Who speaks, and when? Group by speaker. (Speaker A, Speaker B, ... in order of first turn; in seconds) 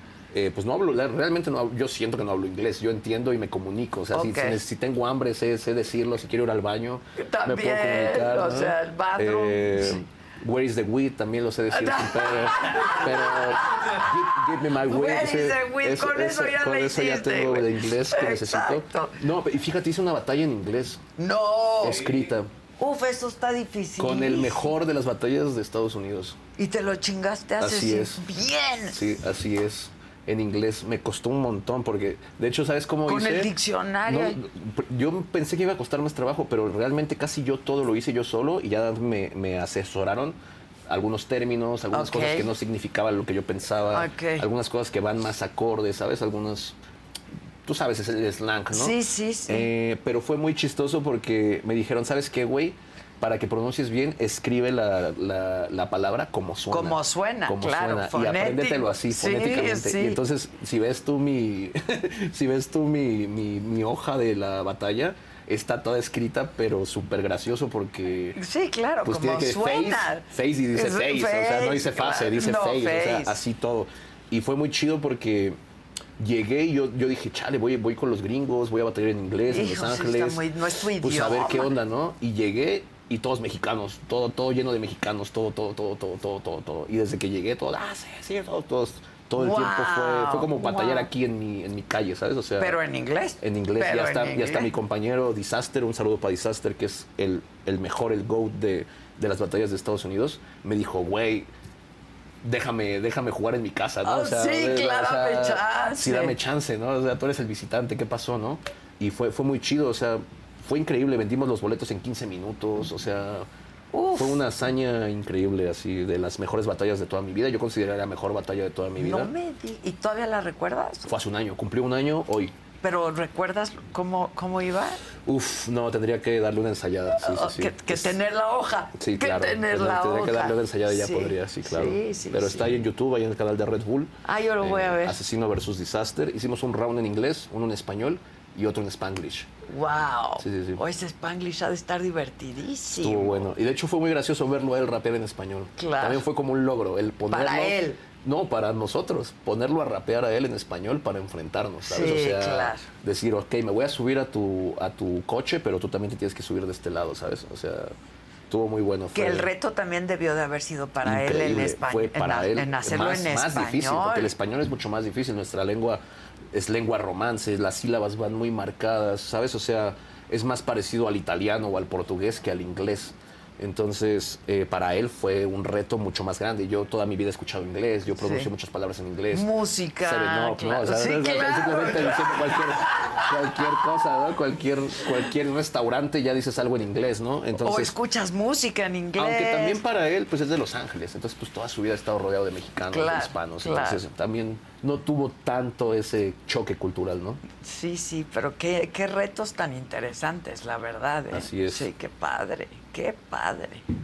Speaker A: 0.3-21.0, 21.8-22.5, 24.0-26.4, 27.6-28.2, 28.9-33.5, 34.1-40.4, 40.9-46.8, 47.6-49.0, 49.5-68.4, 69.0-75.6, 76.2-80.4, 81.0-92.8, 93.4-101.5, 102.4-113.5, 114.2-119.3, 121.1-122.5, 125.2-128.2, 129.0-139.5, 140.4-140.8, 143.0-157.9, 158.5-159.5, 161.0-166.0, 166.5-179.5, 180.0-187.9, 189.2-197.4, 201.3-201.9
Speaker B: 4.1-4.6, 7.2-10.0, 11.7-19.2, 21.2-22.1, 22.8-24.7, 26.6-29.1, 33.0-34.4, 41.9-42.5, 43.9-44.5, 48.7-49.7, 56.7-60.2, 68.4-73.4, 79.5-81.7, 89.3-91.1, 92.6-94.7, 104.0-106.4, 113.9-114.4, 119.0-121.1, 122.8-125.0, 127.2-132.7, 134.2-135.2, 139.7-143.5, 145.8-146.2, 147.3-148.0, 151.8-152.8, 159.1-164.3, 178.2-178.5, 179.3-184.2, 187.6-189.8, 192.9-194.0, 197.6-203.8